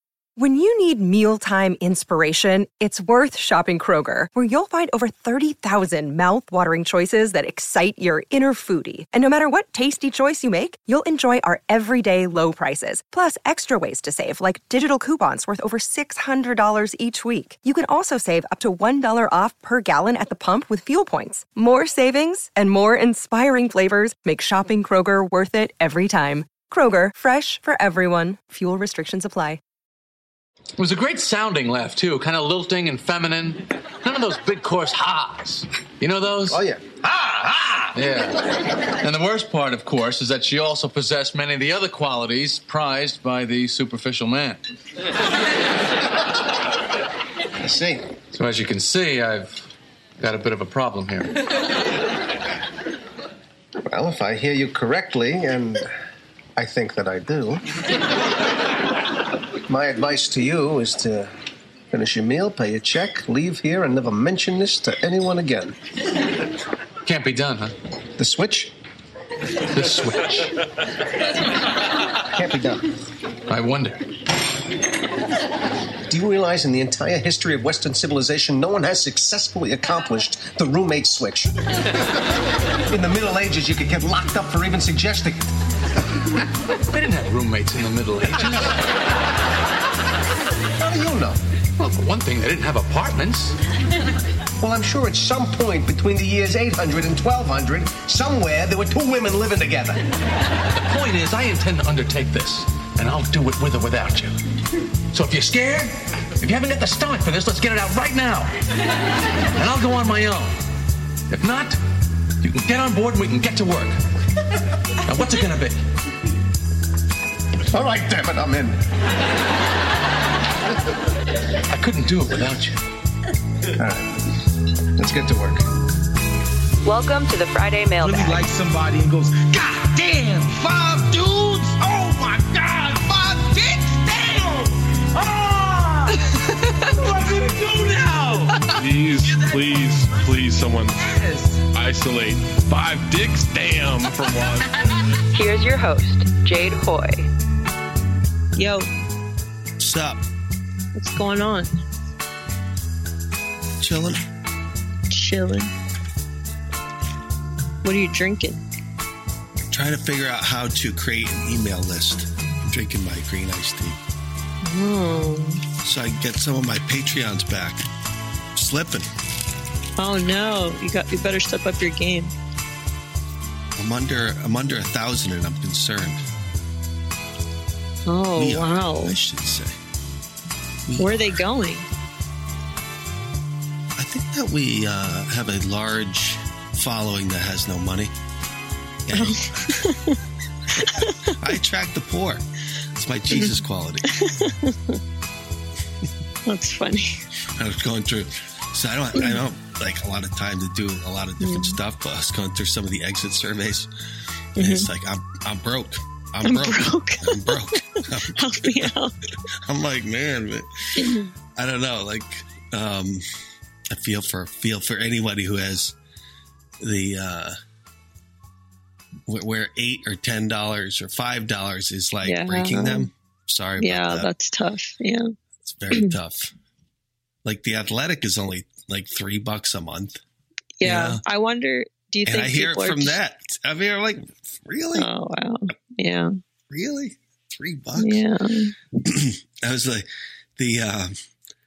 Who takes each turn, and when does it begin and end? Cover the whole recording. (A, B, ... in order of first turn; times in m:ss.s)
0:00.4-0:29.6 A
0:30.8-0:36.6 B
0:36.5-0:37.9 C
0:37.9-0:44.6 B
0:47.6-0:48.1 C
0:48.3-0:51.4 B
0:53.8-0:55.9 C
0:56.6-0:57.7 C
0:59.6-1:01.3 C
1:01.9-1:05.8 C
1:07.0-1:07.7 B
1:08.2-1:08.7 C
1:09.7-1:10.5 B
1:09.7-1:10.4 C
1:12.2-1:12.9 C
1:13.5-1:14.0 B
1:16.1-1:22.0 C
1:22.8-1:25.5 C
1:26.9-1:28.8 B
1:30.8-1:31.4 C
1:31.8-1:33.6 B
1:34.6-1:40.0 C
1:40.7-1:44.4 B
1:45.1-1:48.5 B
1:49.5-1:50.6 B
1:51.3-1:51.8 B
1:52.4-1:53.9 B
1:55.0-1:55.8 B
1:57.7-1:58.8 C
2:01.7-2:02.8 B
2:03.7-2:04.3 C
2:04.9-2:05.6 C
2:06.8-2:08.4 D
2:08.0-2:18.6 E
2:18.8-2:20.9 F
2:19.1-2:21.6 E
2:21.7-2:24.6 F
2:25.3-2:27.3 D
2:28.5-2:28.9 G
2:29.8-2:30.2 H
2:31.0-2:31.7 G
2:33.8-2:34.2 H
2:35.1-2:35.7 G
2:37.8-2:38.6 G
2:39.7-2:44.0 H
2:44.6-2:45.6 G
2:45.8-2:47.8 H
2:48.5-2:49.1 H
2:50.0-2:52.3 G
2:53.8-2:56.2 H
2:58.1-2:59.2 G
2:58.3-2:59.8 H
3:00.9-3:01.4 H
3:01.0-3:01.8 G
3:04.0-3:08.1 H
3:09.1-3:09.8 H
3:09.1-3:10.2 G
3:10.8-3:11.2 G
3:10.8-3:12.4 H
3:12.9-3:14.1 H
3:13.3-3:13.6 G
3:14.1-3:14.9 G
3:16.5-3:17.2 G
3:17.6-3:23.9 H
3:19.1-3:19.4 G
3:21.4-3:21.8 G
3:24.6-3:28.9 H
3:24.6-3:24.9 G
3:26.4-3:29.1 G
3:29.6-3:33.2 H
3:31.0-3:31.3 G
3:33.9-3:35.9 H
3:36.8-3:37.6 H
3:39.3-3:44.3 H
3:42.2-3:43.1 G
3:43.8-3:45.3 G
3:45.6-3:46.5 H
3:47.4-3:50.2 H
3:50.8-3:53.2 G
3:50.8-3:51.2 H
3:52.2-3:55.1 H
3:54.9-3:56.3 G
3:56.7-3:58.2 H
3:58.0-3:58.7 G
3:59.0-4:01.1 H